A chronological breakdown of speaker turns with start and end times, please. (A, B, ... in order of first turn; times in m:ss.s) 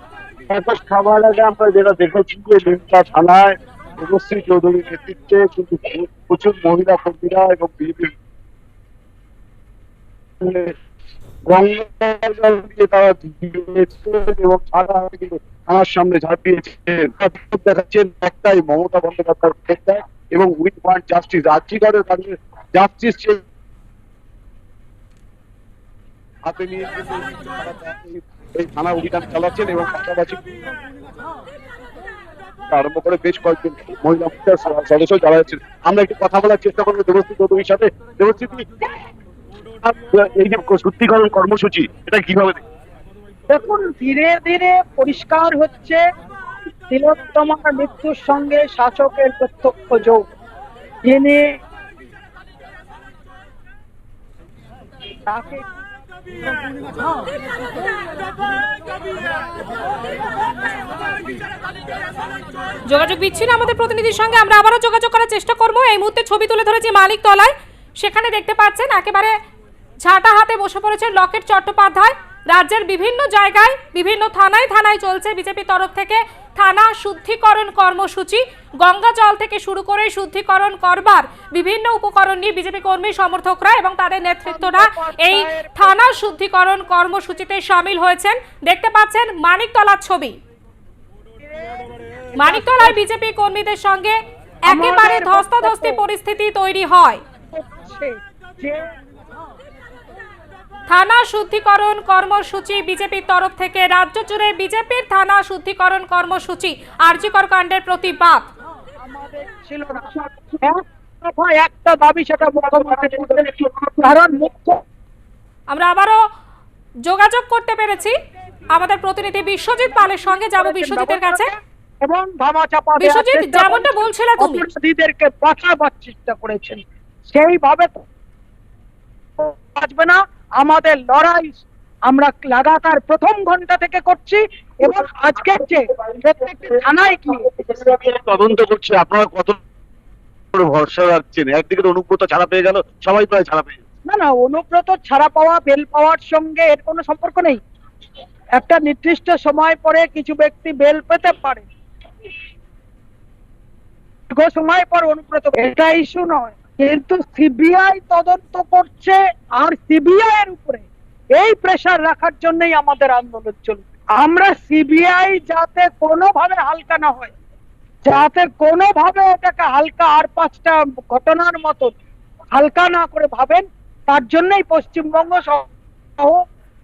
0:00.5-0:08.1 A
0:10.4-0:10.7 A
0:11.5-0:23.4 A
0:26.4-0:30.4 A
0:32.7-0:38.6 A
0:39.8-0:42.6 A
0:43.5-0:46.0 B
0:46.9-0:50.2 B
0:51.0-0:51.4 B
0:55.3-0:55.6 B
1:02.9-1:09.3 C
1:10.0-1:30.4 C
1:24.5-1:26.2 B
1:31.4-1:32.9 B
1:32.4-1:37.2 C
1:34.7-1:36.0 B
1:37.5-1:38.8 B
1:40.9-1:48.5 C
1:49.0-1:54.8 B
1:55.7-1:56.2 C
1:57.0-1:58.2 C
1:58.7-2:01.5 C
2:00.6-2:08.0 B
2:03.0-2:04.6 C
2:09.4-2:17.5 B
2:17.6-2:19.6 A
2:20.5-2:23.8 A
2:24.0-2:27.6 B
2:28.6-2:31.6 B
2:34.3-2:47.3 B
2:48.0-2:51.9 B
2:52.5-2:56.4 B